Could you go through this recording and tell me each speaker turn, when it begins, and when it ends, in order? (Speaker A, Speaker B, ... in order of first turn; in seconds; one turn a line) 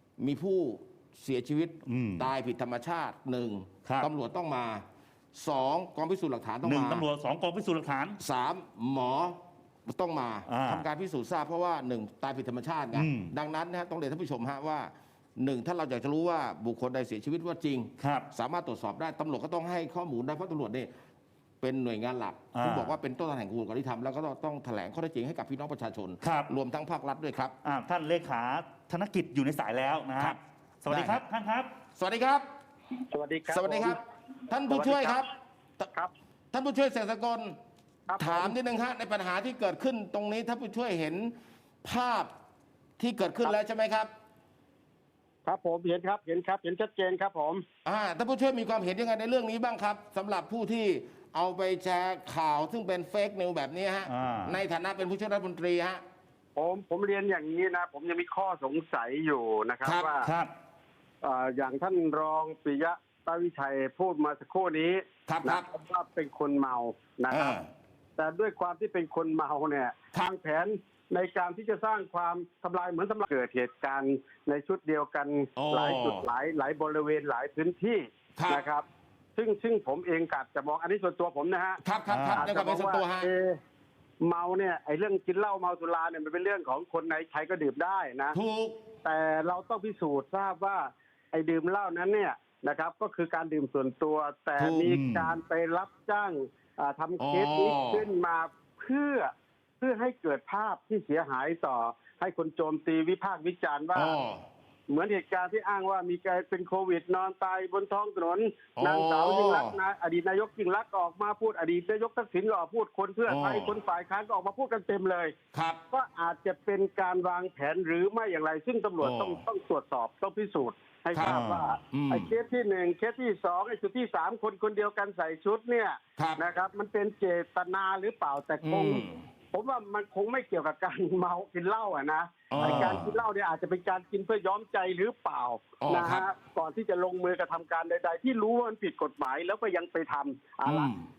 Speaker A: 0.2-4.8
Speaker B: 1.9-2.3
Speaker A: 5.3-7.0
Speaker B: 6.6-8.2
Speaker A: 8.2-20.9
Speaker B: 10.5-10.8
Speaker B: 12.9-13.3
Speaker B: 18.0-18.3
Speaker A: 21.6-27.6
Speaker B: 22.6-22.9
Speaker B: 26.2-26.5
Speaker B: 27.6-31.7
Speaker A: 30.9-31.2
Speaker A: 32.0-32.5
Speaker C: 33.1-34.0
Speaker A: 33.5-35.3
Speaker C: 34.6-35.2
Speaker A: 36.5-37.6
Speaker C: 38.1-38.5
Speaker A: 38.2-42.3
Speaker A: 43.0-44.1
Speaker C: 45.5-47.6
Speaker A: 47.9-56.0
Speaker B: 54.1-54.6
Speaker C: 56.6-60.3
Speaker B: 60.2-60.5
Speaker C: 61.2-67.6
Speaker A: 65.3-65.7
Speaker A: 67.3-67.7
Speaker C: 68.2-78.8
Speaker A: 75.6-76.3
Speaker A: 78.4-78.6
Speaker C: 79.4-81.8
Speaker A: 81.8-83.3
Speaker B: 82.1-82.4
Speaker C: 82.3-83.6
Speaker C: 84.2-88.4
Speaker A: 88.3-88.8
Speaker C: 89.0-104.2
Speaker A: 94.6-95.0
Speaker B: 94.9-95.3
Speaker A: 97.2-98.0
Speaker A: 104.0-104.4
Speaker C: 104.9-115.3
Speaker A: 108.8-109.7
Speaker A: 113.3-113.8
Speaker A: 115.5-115.8
Speaker C: 115.9-140.9
Speaker A: 119.0-119.4
Speaker A: 121.1-122.3
Speaker B: 121.2-121.7
Speaker A: 128.6-129.2
Speaker A: 132.5-133.2
Speaker B: 132.6-133.0
Speaker A: 135.8-136.2
Speaker A: 140.7-141.1